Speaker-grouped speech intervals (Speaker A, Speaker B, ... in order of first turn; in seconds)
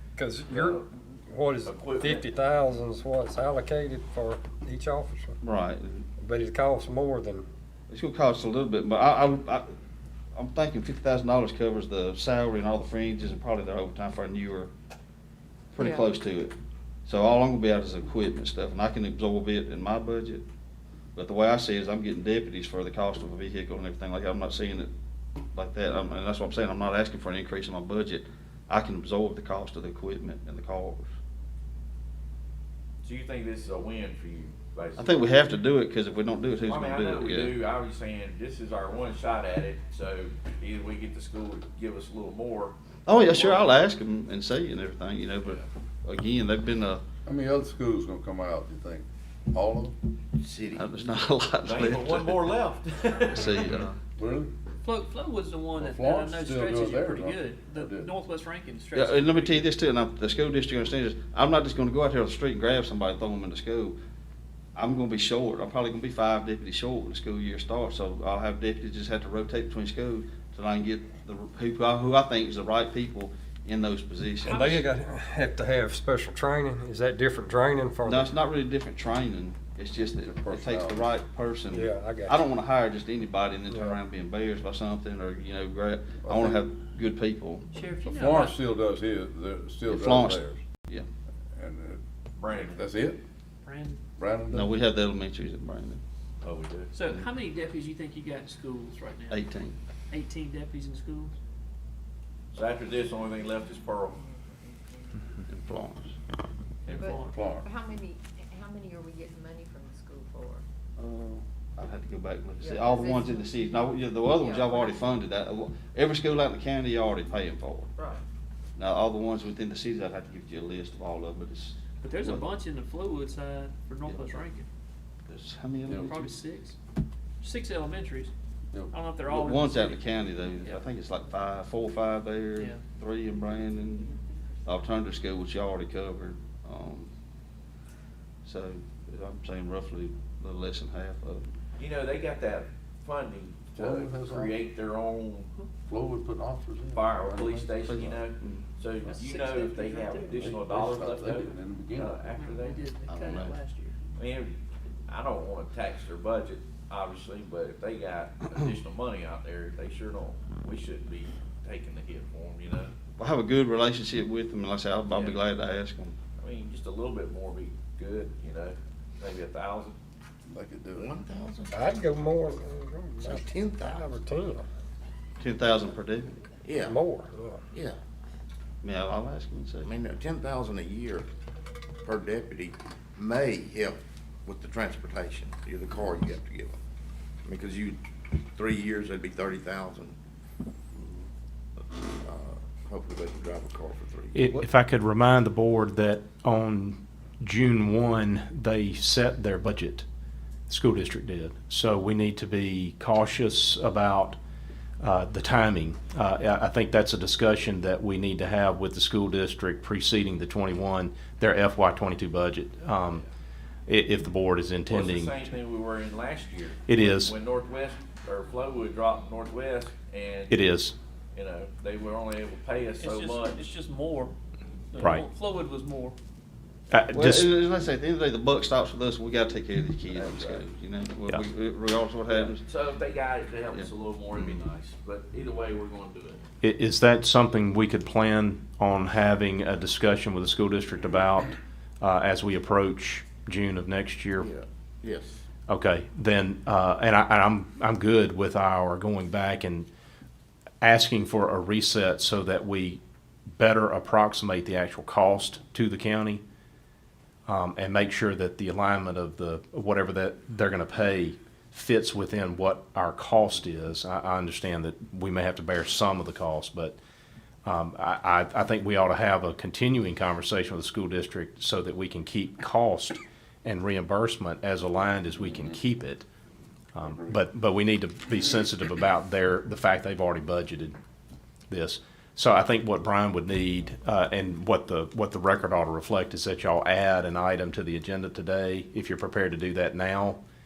Speaker A: 0.2-5.4, 6.2-7.5, 74.4-78.3, 81.7-82.4, 83.7-84.0, 171.7-174.7, 176.8-177.6
Speaker B: 0.5-0.8, 1.6-2.3, 33.0-35.3, 36.6-43.6, 51.6-53.6, 92.4-92.8, 96.4-96.9, 102.5-104.2, 141.8-145.5, 146.9-152.9, 154.2-162.9, 165.1-165.4, 166.4-170.0, 214.9-220.6, 221.3-223.6, 230.1-230.6, 232.3-236.4
Speaker C: 5.4-6.0, 7.9-9.7, 10.3-14.7, 15.7-16.5, 17.1-20.4, 21.1-24.9, 25.5-31.1, 35.0-37.6, 43.0-47.0, 50.7-52.5, 53.3-54.0, 58.9-64.0, 64.7-74.8, 78.0-87.6, 89.9-91.1, 94.5-96.0, 99.3-99.8, 105.5-106.1, 111.0-117.9, 118.8-122.4, 124.0-124.3, 125.3-126.4, 129.2-137.1, 138.4-141.5, 147.9-148.6, 153.1-153.6, 163.2-166.2, 175.4-176.4, 178.8-179.9, 227.1-232.6, 233.7-234.7
Speaker D: 47.2-50.0, 53.7-54.5, 55.8-58.1, 80.2-81.1, 86.2-86.6, 88.0-90.6, 91.5-92.0, 92.5-93.2, 94.2-94.8, 107.0-107.7, 125.8-126.2, 143.7-144.6, 145.8-148.2, 150.2-152.2, 170.5-171.2
Speaker E: 50.4-50.8, 170.9-171.8, 173.2-174.1, 176.6-177.0, 177.7-178.0, 179.8-181.3, 182.0-186.8, 187.4-190.2, 192.1-194.4, 244.4-245.4
Speaker F: 54.8-59.7, 74.5-74.8, 87.7-88.5, 93.6-94.0, 96.9-99.5, 100.1-101.3, 106.8-107.4, 122.0-124.7, 125.9-126.8, 127.4-128.3, 128.9-130.9, 149.1-150.4, 152.3-153.9, 223.0-224.3, 224.9-226.2
Speaker G: 103.0-105.4, 106.9-110.7, 112.6-115.2, 118.0-118.2
Speaker H: 194.3-200.0, 200.7-204.4, 205.0-213.2, 213.9-215.5, 216.8-217.3, 220.5-220.9, 225.0-225.2, 226.9-227.5, 236.6-244.5, 245.7-249.9, 250.8-253.0, 253.5-256.4, 257.5-266.9, 267.6-276.2, 276.9-280.9, 281.7-290.4